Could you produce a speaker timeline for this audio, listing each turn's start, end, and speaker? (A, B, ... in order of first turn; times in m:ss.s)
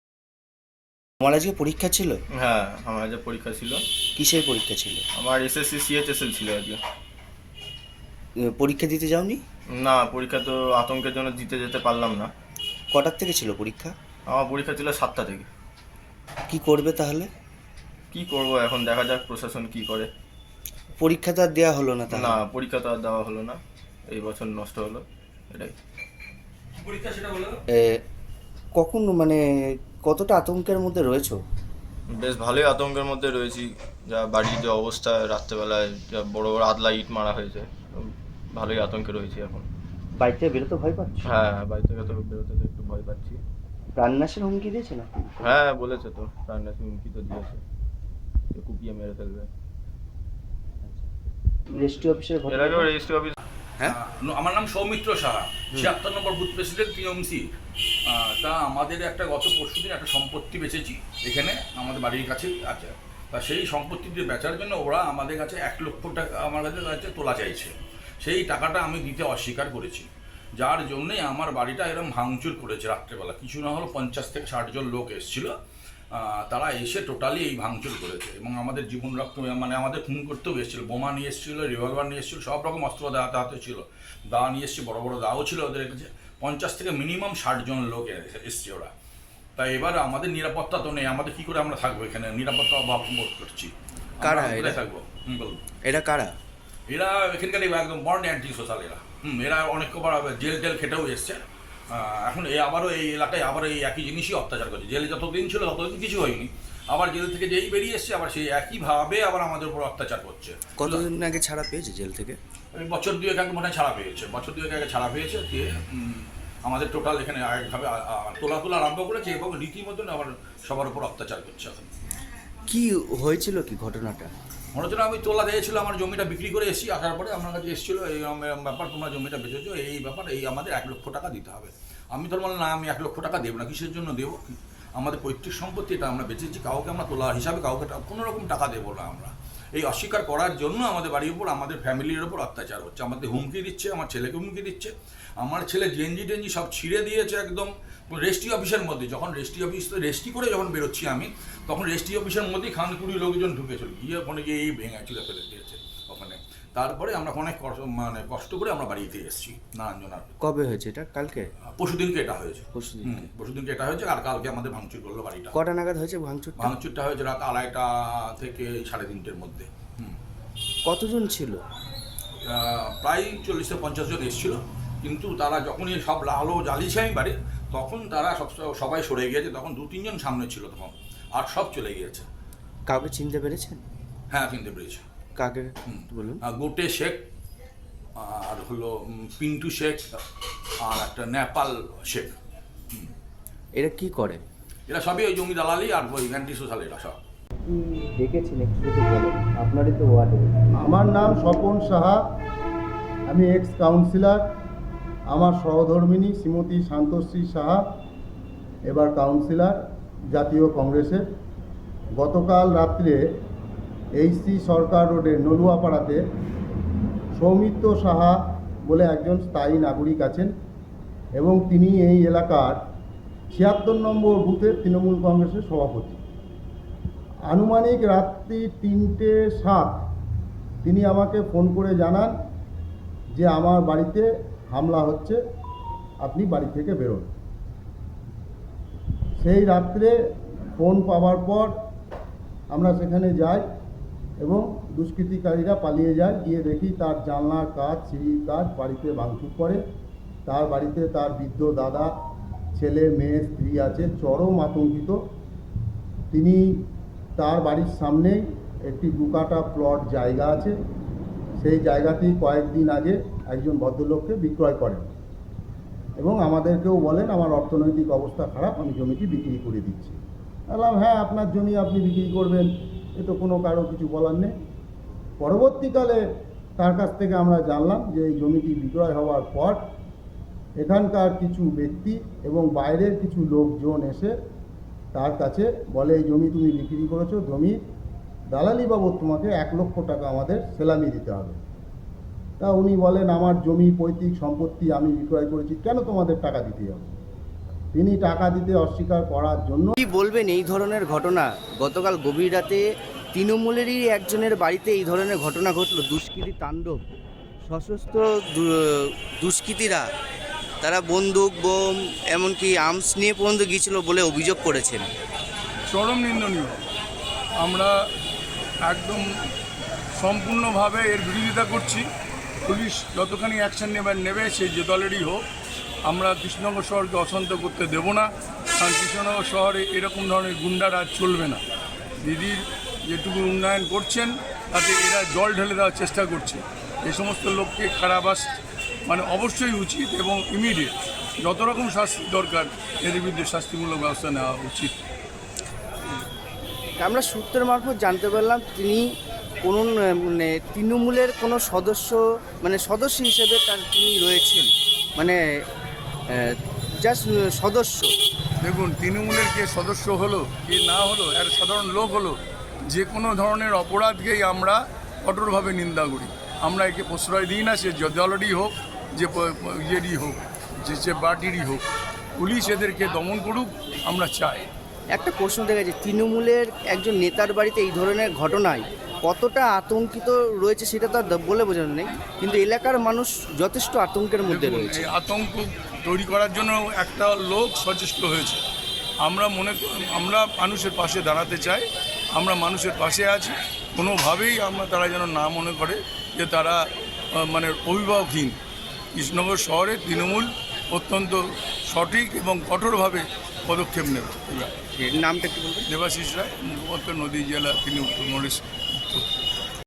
0:01.2-0:02.2 A
0:02.3-0:03.8 B
0:04.2-0:05.0 A
0:05.2-0:06.8 B
0:08.4-0:09.4 A
0:09.7-0:12.3 B
0:12.9-0:14.0 A
0:14.3-0:15.5 B
0:16.5-0:17.3 A
0:18.1-0:20.1 B
0:21.0-0:22.4 A
0:22.1-0:25.7 B
0:26.8-0:27.6 C
0:27.7-0:28.0 A
0:28.8-0:31.4 A
0:32.1-0:39.6 B
0:40.2-0:41.3 A
0:41.2-0:43.4 B
0:44.0-0:45.6 A
0:45.4-0:47.6 B
0:48.5-0:49.5 B
0:51.7-0:52.9 A
0:52.5-0:53.4 B
0:53.8-0:57.5 C
0:58.1-1:10.1 C
1:10.6-1:15.5 C
1:16.2-1:28.9 C
1:29.6-1:35.6 C
1:34.2-1:34.8 A
1:35.8-1:36.4 A
1:36.9-1:41.4 C
1:41.9-1:51.1 C
1:50.8-1:52.4 A
1:52.7-2:01.9 C
2:02.7-2:04.3 A
2:04.8-2:40.3 C
2:40.4-2:41.5 A
2:41.8-2:45.6 C
2:42.8-2:43.3 A
2:45.5-2:46.7 A
2:46.6-2:50.2 C
2:50.9-2:51.6 A
2:52.5-3:02.3 C
3:02.9-3:03.8 A
3:04.3-3:05.0 C
3:05.4-3:06.4 A
3:05.9-3:07.2 C
3:08.2-3:10.2 C
3:10.8-3:12.4 C
3:13.8-3:14.4 A
3:14.9-3:17.2 C
3:17.6-3:20.5 A
3:20.8-3:22.2 D
3:23.3-3:24.4 D
3:25.3-3:27.8 D
3:28.9-3:29.8 D
3:30.3-3:31.2 D
3:32.2-3:33.2 D
3:34.2-3:36.2 D
3:37.4-3:40.5 D
3:41.4-3:42.8 D
3:43.5-3:46.2 D
3:47.5-3:50.0 D
3:50.8-3:52.3 D
3:53.4-3:55.4 D
3:56.2-3:57.3 D
3:59.4-4:00.2 D
4:00.8-4:01.7 D
4:02.7-4:03.6 D
4:04.4-4:09.8 D
4:10.5-4:12.1 D
4:12.8-4:15.2 D
4:16.3-4:16.8 D
4:17.4-4:20.8 D
4:21.6-4:25.1 D
4:26.2-4:30.2 D
4:30.7-4:34.5 D
4:35.4-4:36.2 D
4:36.8-4:39.8 D
4:40.8-4:44.3 D
4:45.1-4:47.8 D
4:48.5-4:51.6 D
4:52.6-4:57.2 D
4:57.9-5:00.0 D
5:00.0-5:07.0 A
5:07.6-5:10.1 A
5:10.8-5:15.1 A
5:15.9-5:16.8 E
5:17.6-5:17.9 E
5:18.9-5:19.2 E
5:20.2-5:22.0 E
5:22.6-5:25.4 E
5:26.1-5:31.6 E
5:32.2-5:38.5 E
5:39.1-5:45.0 E
5:47.0-5:49.1 A
5:49.6-5:55.4 A
5:56.3-5:58.1 A
5:58.6-6:02.4 E
6:02.9-6:11.8 E
6:12.4-6:14.6 E
6:15.1-6:25.1 A
6:24.4-6:28.6 E
6:29.3-6:31.8 E
6:32.4-6:36.8 E
6:37.4-6:38.6 E
6:39.2-6:44.7 E
6:45.0-6:45.9 A
6:45.9-6:49.2 E